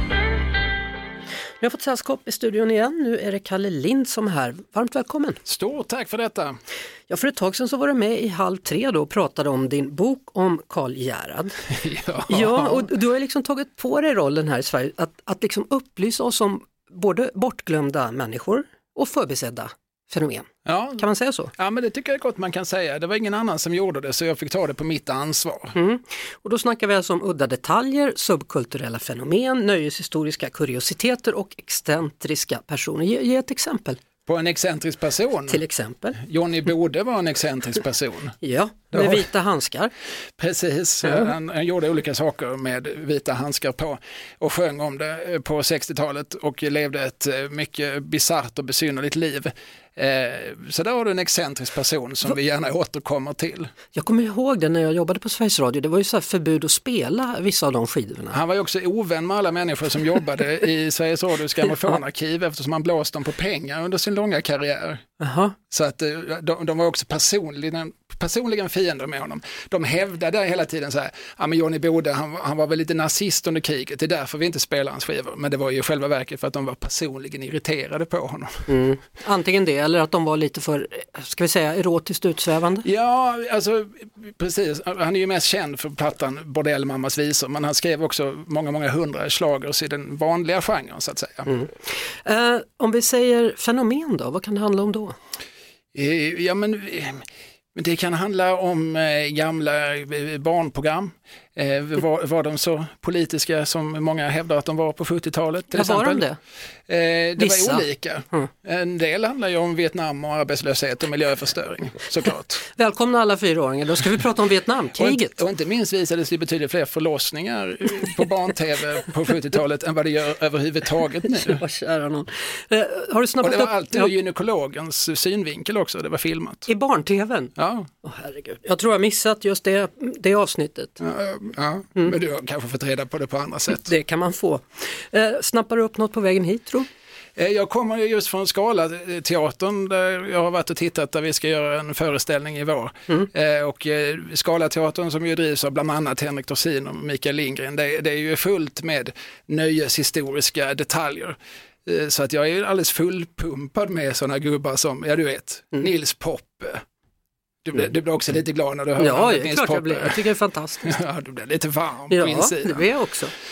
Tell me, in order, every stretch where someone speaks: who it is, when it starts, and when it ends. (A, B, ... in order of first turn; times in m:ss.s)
0:01.6-0:05.4 A
0:05.4-0:06.6 B
0:07.1-0:11.6 A
0:11.8-0:12.9 B
0:12.3-0:20.5 A
0:20.6-0:25.7 B
0:21.0-0:21.5 A
0:25.7-0:34.0 A
0:34.2-0:35.6 B
0:35.5-0:36.2 A
0:36.2-0:38.4 B
0:38.4-0:39.9 A
0:38.9-0:39.2 B
0:40.4-0:53.7 B
0:53.9-0:58.4 A
0:58.3-1:05.0 B
1:05.2-1:05.5 A
1:05.7-1:18.6 B
1:18.7-1:22.8 A
1:22.8-1:31.6 B
1:32.2-1:35.1 A
1:35.9-1:37.2 B
1:37.7-1:46.2 B
1:45.7-1:46.4 A
1:46.9-1:52.6 B
1:47.4-1:48.5 A
1:52.7-1:55.4 A
1:54.9-2:01.6 B
2:01.3-2:04.1 A
2:03.4-2:06.7 B
2:06.7-2:07.5 A
2:07.6-2:07.9 B
2:08.0-2:11.0 A
2:11.0-2:13.9 B
2:13.7-2:16.9 A
2:17.4-2:36.8 B
2:37.6-2:40.3 B
2:39.0-2:40.9 A
2:40.8-2:42.9 B
2:42.1-2:43.3 A